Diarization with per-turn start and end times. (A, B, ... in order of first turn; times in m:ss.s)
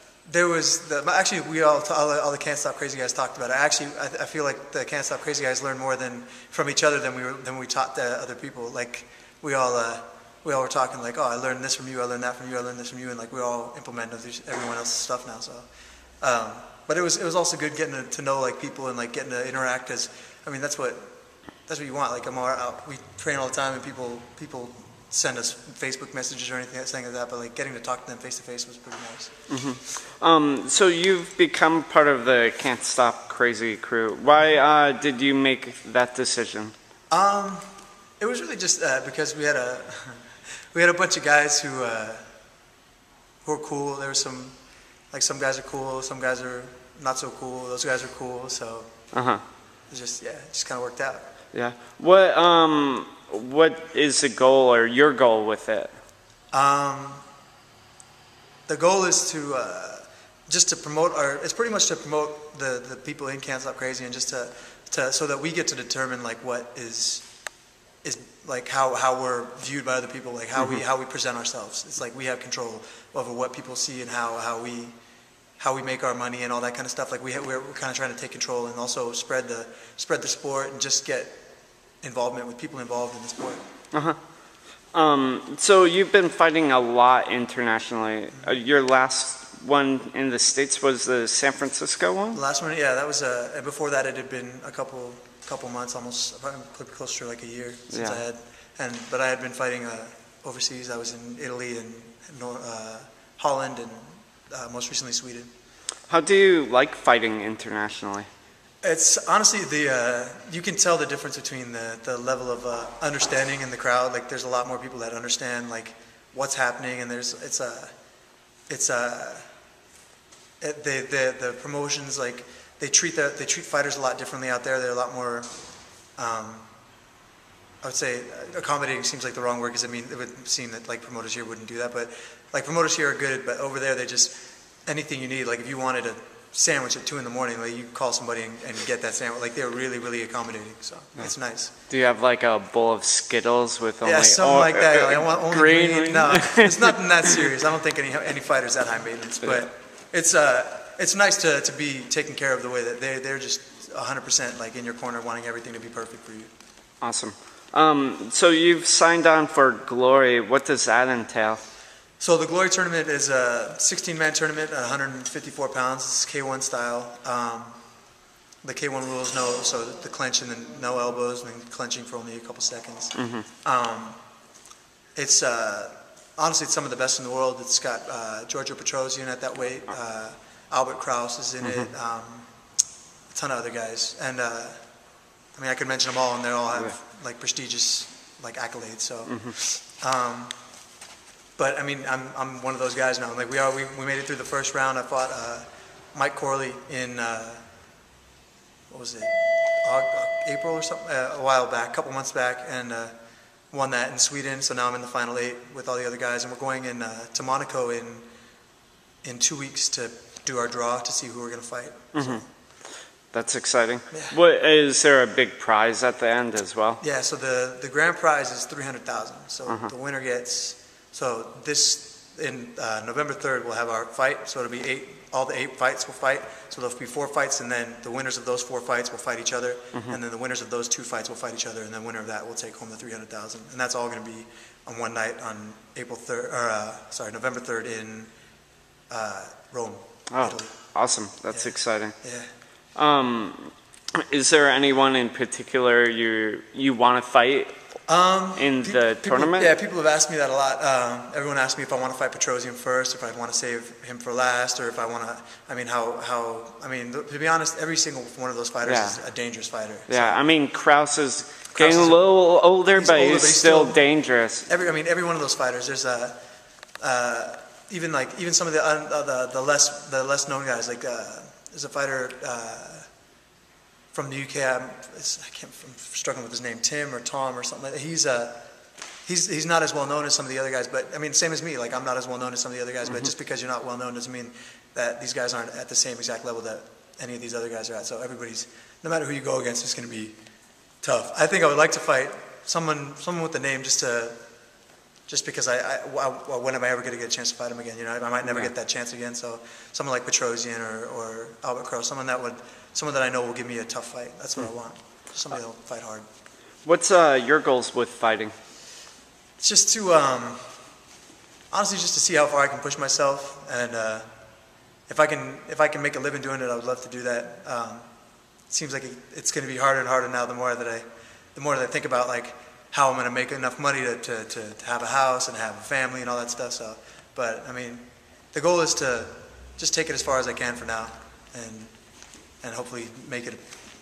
0:00.3-0:15.6 A
0:16.2-0:21.1 A
0:21.6-0:29.3 A
0:29.5-0:36.7 B
0:37.1-0:37.6 A
0:38.2-0:42.2 A
0:43.4-0:44.5 A
0:45.1-0:48.9 A
0:49.1-0:49.4 B
0:49.9-0:51.3 A
0:51.5-0:55.9 B
0:56.5-0:57.2 A
0:58.7-1:07.2 A
1:08.0-1:14.9 A
1:10.6-1:10.8 B
1:15.6-1:21.4 A
1:22.0-1:23.6 A
1:23.9-1:24.2 B
1:24.9-1:32.4 B
1:32.3-1:45.5 A
1:37.9-1:38.2 B
1:46.1-1:48.3 B
1:48.8-1:57.9 A
1:58.7-1:59.5 A
2:00.6-2:05.5 A
2:06.2-2:06.7 A
2:07.8-2:21.7 A
2:21.9-2:27.5 B
2:24.0-2:36.5 A
2:37.0-2:41.6 B
2:42.2-2:47.8 A
2:48.6-2:54.2 A
2:53.1-2:53.4 B
2:55.2-3:02.5 A
3:01.6-3:01.9 B
3:03.3-3:04.8 A
3:05.5-3:10.5 A
3:09.2-3:09.6 B
3:11.6-3:17.6 A
3:18.9-3:23.1 A
3:23.7-3:28.2 A
3:29.2-3:32.5 A
3:32.1-3:32.4 B
3:33.3-3:37.0 B
3:34.1-3:34.4 A
3:37.0-3:58.3 A
3:49.9-3:50.2 B
3:59.1-4:00.8 A
4:00.3-4:02.1 B
4:01.5-4:02.5 A
4:02.9-4:07.7 B
4:08.1-4:20.4 A
4:08.5-4:09.7 B
4:18.8-4:19.2 B
4:20.1-4:24.7 B
4:21.7-4:22.2 A
4:23.0-4:24.1 A
4:24.7-4:26.4 A
4:27.0-4:33.1 A
4:34.1-4:38.7 A
4:39.2-4:50.4 A
4:51.0-4:54.4 A
4:55.3-5:06.2 A
4:58.4-4:58.7 B
5:06.8-5:08.5 B
5:09.6-5:10.7 A
5:11.7-5:14.2 A
5:15.1-5:18.0 A
5:18.7-5:31.9 A
5:32.6-5:33.7 A